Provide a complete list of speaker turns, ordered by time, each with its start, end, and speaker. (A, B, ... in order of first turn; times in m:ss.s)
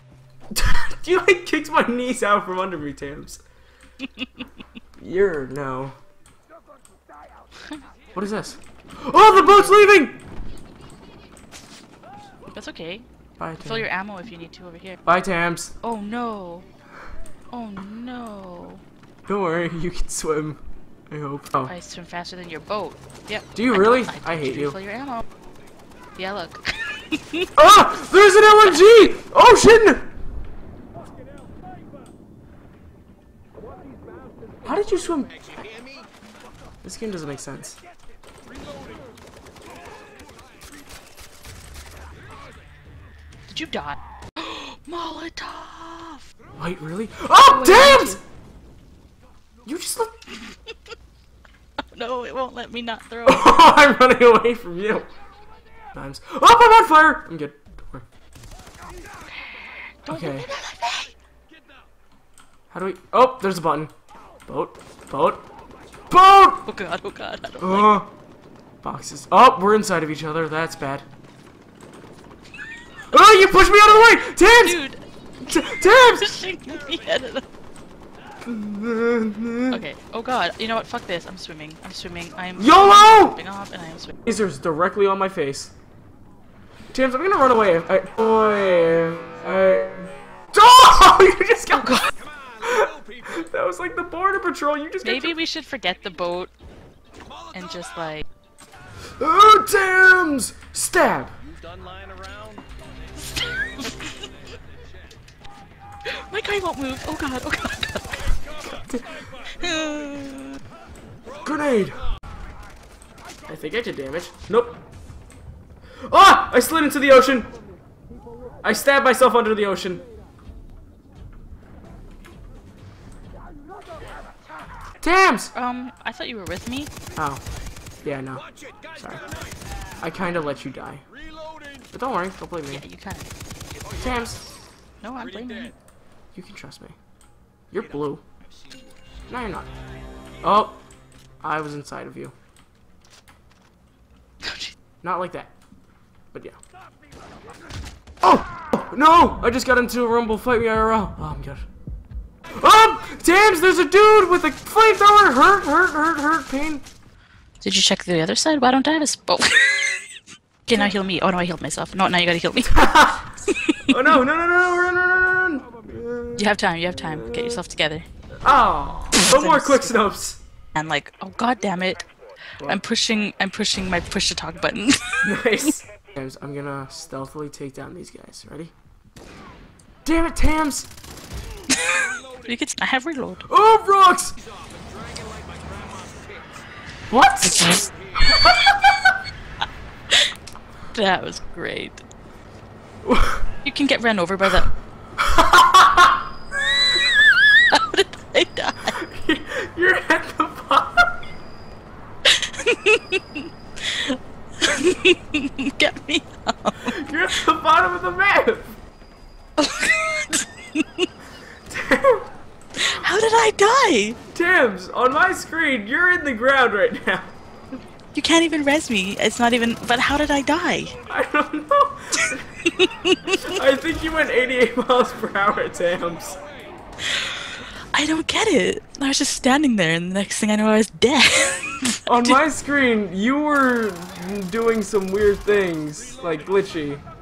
0:00.5-0:03.4 A
0:05.0-0:06.0 A
0:08.1-0:10.2 A
0:09.2-0:09.8 B
0:12.5-0:13.0 B
0:13.4-0:13.9 A
0:13.6-0:15.0 B
0:15.0-0:15.7 A
0:15.8-0:16.6 B
0:17.5-0:18.8 B
0:19.2-0:21.7 A
0:21.6-0:25.2 B
0:23.5-0:24.8 A
0:26.2-0:27.5 B
0:27.6-0:30.0 A
0:34.6-0:35.3 A
0:36.8-0:37.8 A
0:43.5-0:46.2 B
0:46.6-0:48.2 A
0:47.4-0:48.2 B
0:49.6-0:50.1 A
0:51.9-0:53.7 B
0:53.2-0:55.1 A
0:55.9-0:58.0 A
0:59.3-1:01.1 B
1:00.1-1:00.4 A
1:02.7-1:03.9 A
1:04.5-1:05.4 A
1:06.1-1:06.6 A
1:06.6-1:08.0 B
1:07.6-1:08.1 A
1:08.8-1:11.0 A
1:13.1-1:14.8 A
1:13.6-1:15.0 B
1:15.4-1:16.4 A
1:15.5-1:17.4 B
1:18.4-1:19.8 A
1:19.7-1:24.2 B
1:22.6-1:23.4 A
1:24.2-1:25.7 A
1:26.9-1:32.0 A
1:31.7-1:32.1 B
1:32.6-1:35.4 A
1:35.0-1:36.5 B
1:37.5-1:38.2 B
1:39.2-1:41.4 A
1:41.7-1:42.6 C
1:43.2-1:44.1 B
1:46.1-1:48.4 B
1:48.6-1:49.3 A
1:49.5-1:50.6 B
1:51.4-1:52.0 A
1:53.5-1:54.8 A
1:56.0-1:57.5 A
1:58.6-2:00.0 A
2:05.0-2:05.5 A
2:05.5-2:06.9 B
2:07.2-2:07.4 A
2:08.0-2:09.2 A
2:10.0-2:11.0 A
2:11.9-2:12.8 A
2:12.7-2:13.3 B
2:14.0-2:14.4 A
2:15.0-2:15.7 B
2:16.3-2:16.9 A
2:17.7-2:18.2 A
2:19.3-2:19.7 A
2:20.4-2:20.8 A
2:21.4-2:22.3 A
2:24.4-2:24.7 B
2:25.0-2:25.5 A
2:28.2-2:31.6 A
2:32.5-2:36.8 A
2:37.6-2:40.0 B
2:40.6-2:42.8 B
2:42.6-2:47.6 A
2:43.4-2:44.1 B
2:46.4-2:48.1 B
2:48.4-2:50.4 A
2:49.1-2:50.0 B
2:50.7-2:52.0 B
2:52.6-2:55.3 B
2:55.2-2:58.7 A
3:00.0-3:00.9 A
3:01.7-3:03.4 B
3:03.5-3:04.4 A
3:05.0-3:06.2 C
3:07.1-3:09.0 A
3:10.9-3:12.0 B
3:13.0-3:13.4 A
3:13.6-3:14.7 B
3:15.2-3:16.1 A
3:17.5-3:19.0 B
3:18.9-3:21.1 A
3:22.2-3:26.9 B
3:26.8-3:28.8 A
3:29.6-3:31.1 B
3:31.7-3:32.3 A
3:32.8-3:34.2 B
3:34.3-3:37.3 A
3:38.1-3:40.9 B
3:41.1-3:42.4 A
3:42.2-3:43.4 B
3:43.3-3:46.4 A
3:47.0-3:52.4 B
3:52.0-3:57.0 A